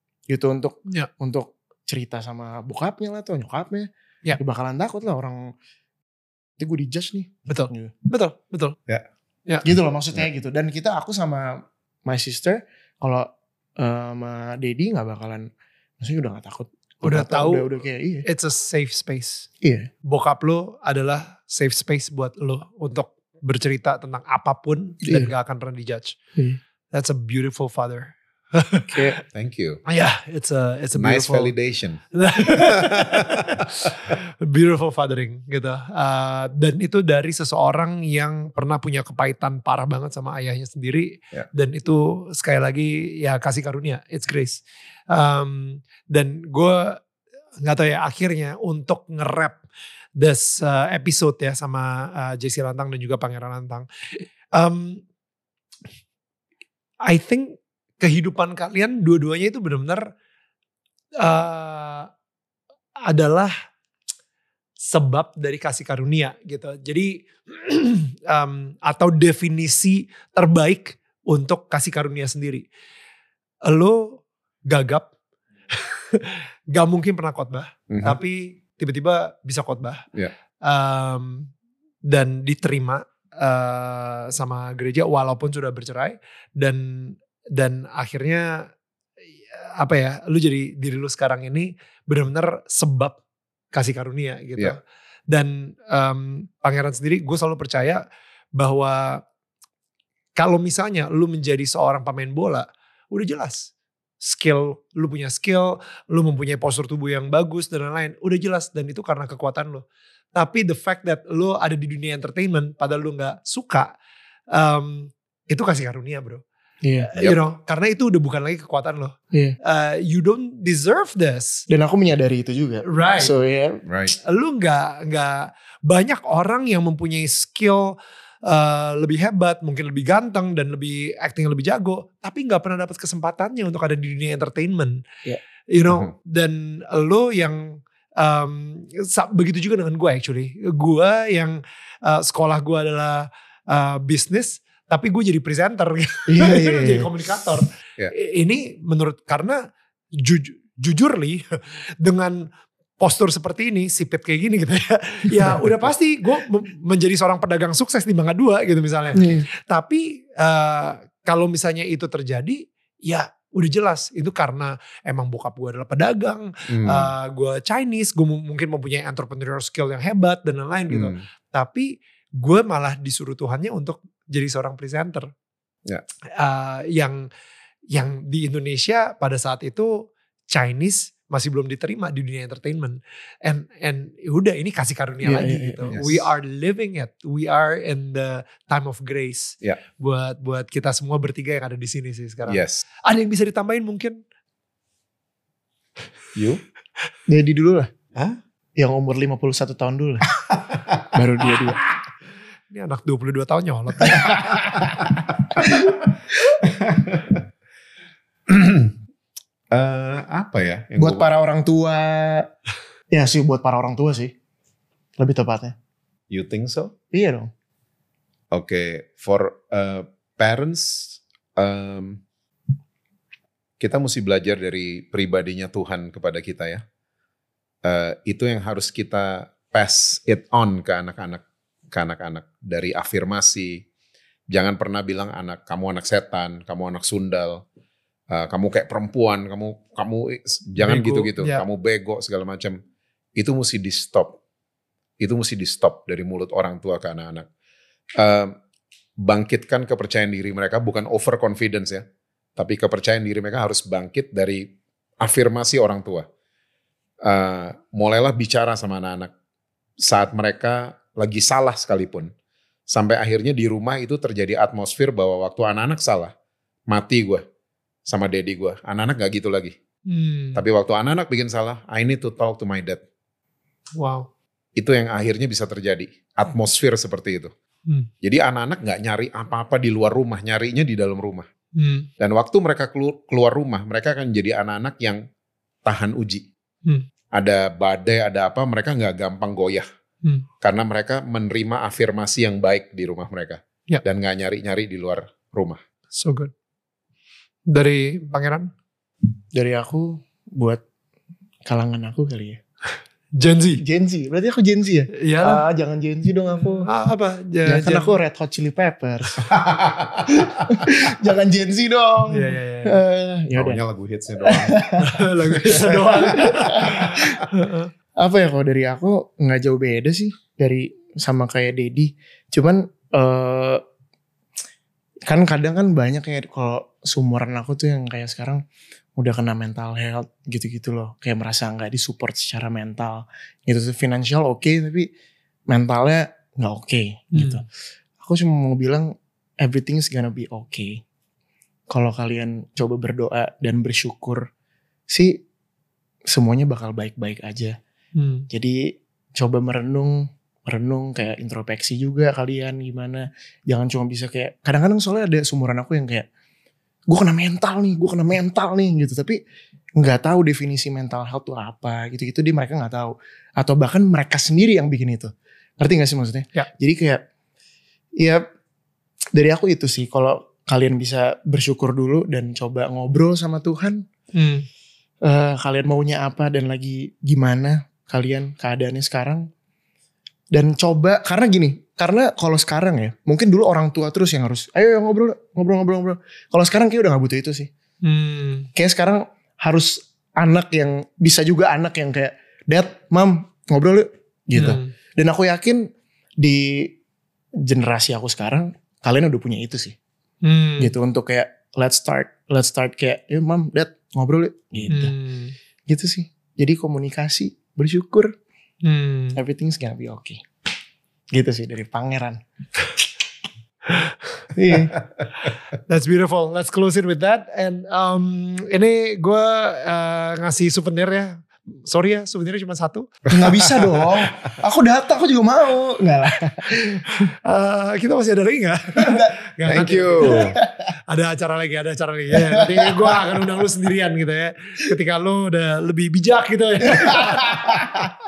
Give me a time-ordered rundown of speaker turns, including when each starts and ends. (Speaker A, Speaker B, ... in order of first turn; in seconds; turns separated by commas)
Speaker A: 0.3-5.5, Speaker A: 6.6-7.9, Speaker B: 7.5-8.8, Speaker A: 9.6-15.5, Speaker A: 16.0-18.2, Speaker B: 17.0-17.7, Speaker B: 18.2-19.5, Speaker A: 19.6-19.9, Speaker B: 20.1-26.1, Speaker B: 26.9-29.1, Speaker C: 29.1-29.8, Speaker B: 29.9-31.5, Speaker C: 30.9-32.0, Speaker B: 32.1-47.0, Speaker C: 32.5-34.1, Speaker B: 47.6-49.6, Speaker B: 50.1-55.0, Speaker B: 57.0-60.1, Speaker B: 61.2-62.1, Speaker B: 63.0-63.5, Speaker B: 64.8-72.7, Speaker B: 73.7-75.1, Speaker B: 75.7-80.0, Speaker C: 77.9-78.2, Speaker B: 80.6-81.5, Speaker B: 82.1-88.7, Speaker B: 89.5-93.2, Speaker B: 93.7-98.0, Speaker B: 98.5-99.2, Speaker B: 100.3-113.9, Speaker B: 114.5-116.4, Speaker A: 116.8-117.1, Speaker B: 117.1-121.7, Speaker A: 119.3-119.6, Speaker A: 121.7-123.8, Speaker B: 122.8-123.3, Speaker C: 123.8-124.1, Speaker B: 124.2-135.0, Speaker B: 135.7-149.6, Speaker A: 146.3-147.4, Speaker B: 150.2-152.5, Speaker B: 153.0-175.3, Speaker A: 159.2-159.4, Speaker C: 166.7-167.1, Speaker C: 170.9-171.2, Speaker B: 176.3-177.2, Speaker B: 177.9-194.2, Speaker A: 185.2-186.0, Speaker C: 185.9-186.2, Speaker C: 192.5-192.8, Speaker C: 196.3-196.6, Speaker A: 197.3-197.9, Speaker A: 198.8-200.2, Speaker C: 200.5-201.0, Speaker A: 201.1-201.8, Speaker B: 202.7-204.9, Speaker C: 206.6-207.4, Speaker C: 208.5-208.9, Speaker C: 209.7-211.2, Speaker A: 211.0-212.5, Speaker A: 213.1-214.3, Speaker A: 215.2-215.7, Speaker C: 216.3-216.9, Speaker A: 217.1-217.5, Speaker C: 218.5-222.2, Speaker C: 223.8-226.8, Speaker C: 227.8-233.8, Speaker C: 234.5-237.6, Speaker C: 238.3-242.8, Speaker B: 240.8-241.6, Speaker C: 243.3-244.4, Speaker C: 245.2-247.5, Speaker C: 248.2-248.5, Speaker C: 249.2-252.0, Speaker C: 252.6-256.3, Speaker C: 257.2-259.3, Speaker C: 260.0-262.3, Speaker C: 262.9-266.3, Speaker C: 266.9-267.4, Speaker C: 268.1-269.8, Speaker B: 270.1-270.6, Speaker C: 270.6-273.0, Speaker B: 274.0-274.3, Speaker C: 274.8-277.5, Speaker C: 278.2-281.5, Speaker B: 281.8-282.1, Speaker C: 282.2-285.2, Speaker C: 285.8-286.5, Speaker C: 287.3-289.9, Speaker C: 290.6-295.8, Speaker B: 296.1-296.5, Speaker B: 297.7-298.7, Speaker A: 299.5-300.8, Speaker A: 301.6-302.6, Speaker B: 303.4-303.8, Speaker A: 303.8-306.9, Speaker B: 305.1-305.6, Speaker B: 306.8-308.1, Speaker A: 307.6-309.5, Speaker C: 309.4-310.3, Speaker A: 310.3-313.8, Speaker B: 312.3-313.0, Speaker C: 313.5-314.8, Speaker A: 314.4-317.4, Speaker B: 315.0-317.9, Speaker C: 315.6-316.9, Speaker A: 318.2-323.8, Speaker A: 325.3-328.6, Speaker A: 329.2-335.1, Speaker A: 335.7-337.6, Speaker B: 337.3-337.6, Speaker A: 338.2-341.0, Speaker A: 341.9-344.4, Speaker A: 346.3-347.8, Speaker B: 348.1-348.4, Speaker A: 348.5-348.8, Speaker A: 349.4-356.2, Speaker A: 357.1-359.4, Speaker A: 360.0-367.2, Speaker A: 369.3-374.0, Speaker B: 374.3-374.6, Speaker A: 375.2-379.4, Speaker A: 380.5-387.7, Speaker B: 388.0-388.7, Speaker A: 388.7-395.8, Speaker B: 394.6-394.9, Speaker A: 396.4-396.9, Speaker A: 397.6-399.9, Speaker B: 400.4-400.9, Speaker A: 400.8-405.1, Speaker B: 404.9-405.5, Speaker A: 405.9-408.3, Speaker B: 408.8-409.4, Speaker A: 409.3-410.4, Speaker A: 411.3-412.4, Speaker B: 413.9-414.4, Speaker A: 414.5-415.0, Speaker B: 415.4-423.2, Speaker A: 423.3-427.2, Speaker B: 427.0-430.6, Speaker A: 429.0-429.4, Speaker C: 429.7-430.6, Speaker A: 430.2-430.6, Speaker B: 431.1-437.8, Speaker A: 432.4-433.4, Speaker A: 437.0-437.7, Speaker C: 437.2-438.1